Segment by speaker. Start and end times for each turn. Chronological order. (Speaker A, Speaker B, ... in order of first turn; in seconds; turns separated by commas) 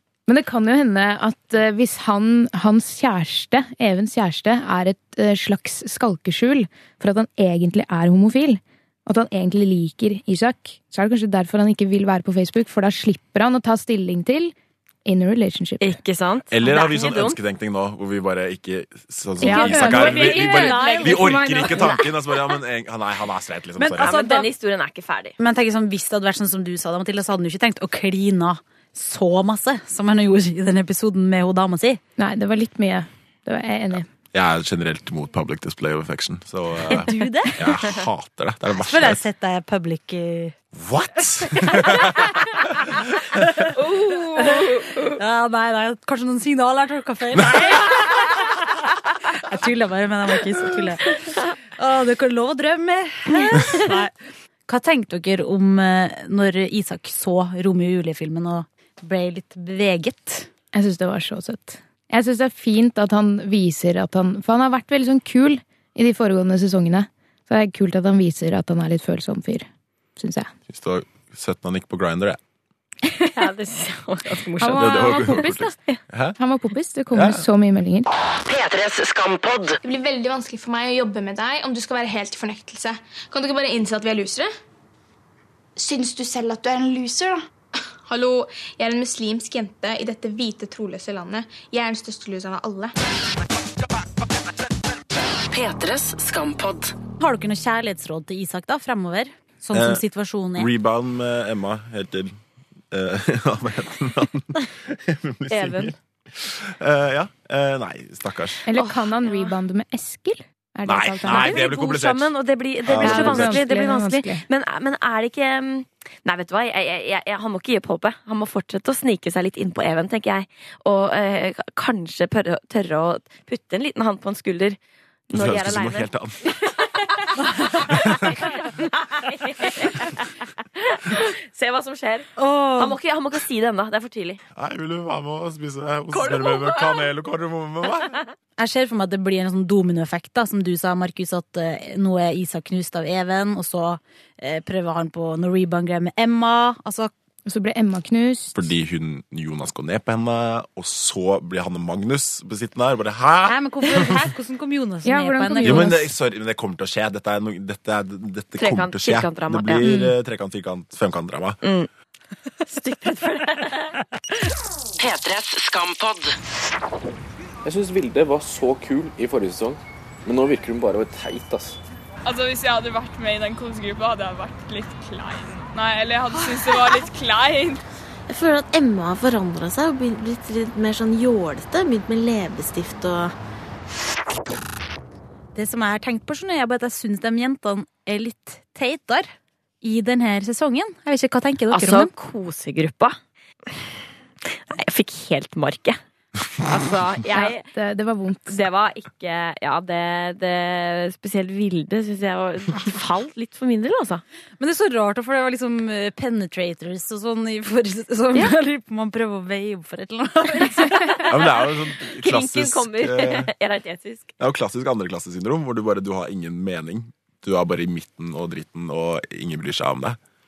Speaker A: 0.3-16.0, Speaker B: 15.8-17.4, Speaker C: 16.5-24.2, Speaker A: 19.4-22.0, Speaker D: 19.4-21.4, Speaker B: 19.9-21.9, Speaker D: 23.8-24.5, Speaker B: 24.0-25.4, Speaker D: 25.4-32.0, Speaker A: 32.2-34.0, Speaker C: 34.3-39.2, Speaker D: 36.9-37.6, Speaker D: 38.9-40.5, Speaker C: 40.7-42.3, Speaker D: 41.7-42.0, Speaker D: 43.4-43.6, Speaker B: 43.8-45.2, Speaker D: 44.4-48.4, Speaker C: 47.4-47.8, Speaker D: 49.3-54.1, Speaker D: 54.7-60.5, Speaker A: 60.7-70.5, Speaker C: 70.7-72.4, Speaker B: 73.2-75.4, Speaker A: 74.6-75.8, Speaker C: 74.6-76.4, Speaker A: 76.4-78.1, Speaker C: 77.1-77.4, Speaker E: 78.5-79.8, Speaker F: 79.8-84.5, Speaker F: 85.8-87.5, Speaker F: 88.0-92.9, Speaker E: 95.5-96.9, Speaker D: 97.2-100.7, Speaker C: 99.7-100.0, Speaker C: 100.5-102.3, Speaker C: 102.9-108.7, Speaker B: 105.5-105.9, Speaker A: 108.7-111.7, Speaker B: 108.7-109.5, Speaker C: 110.8-113.6, Speaker B: 111.2-124.8, Speaker A: 113.0-114.4, Speaker B: 125.3-134.4, Speaker C: 125.3-126.4, Speaker C: 127.9-128.5, Speaker D: 132.4-133.0, Speaker C: 134.5-138.2, Speaker B: 136.1-137.1, Speaker D: 138.6-147.1, Speaker A: 147.4-148.7, Speaker C: 148.5-154.2, Speaker D: 153.4-155.9, Speaker A: 155.0-156.1, Speaker C: 155.6-161.6, Speaker B: 158.6-159.8, Speaker A: 159.8-160.1, Speaker B: 161.6-161.9, Speaker B: 162.6-164.0, Speaker E: 165.0-166.3, Speaker G: 167.6-171.8, Speaker H: 172.2-177.8, Speaker I: 178.3-183.3, Speaker D: 185.5-192.1, Speaker B: 191.7-193.2, Speaker B: 194.5-196.0, Speaker B: 196.6-197.7, Speaker A: 197.3-198.6, Speaker B: 198.5-204.2, Speaker D: 204.6-211.2, Speaker B: 210.8-214.3, Speaker C: 211.3-213.5, Speaker C: 214.4-220.2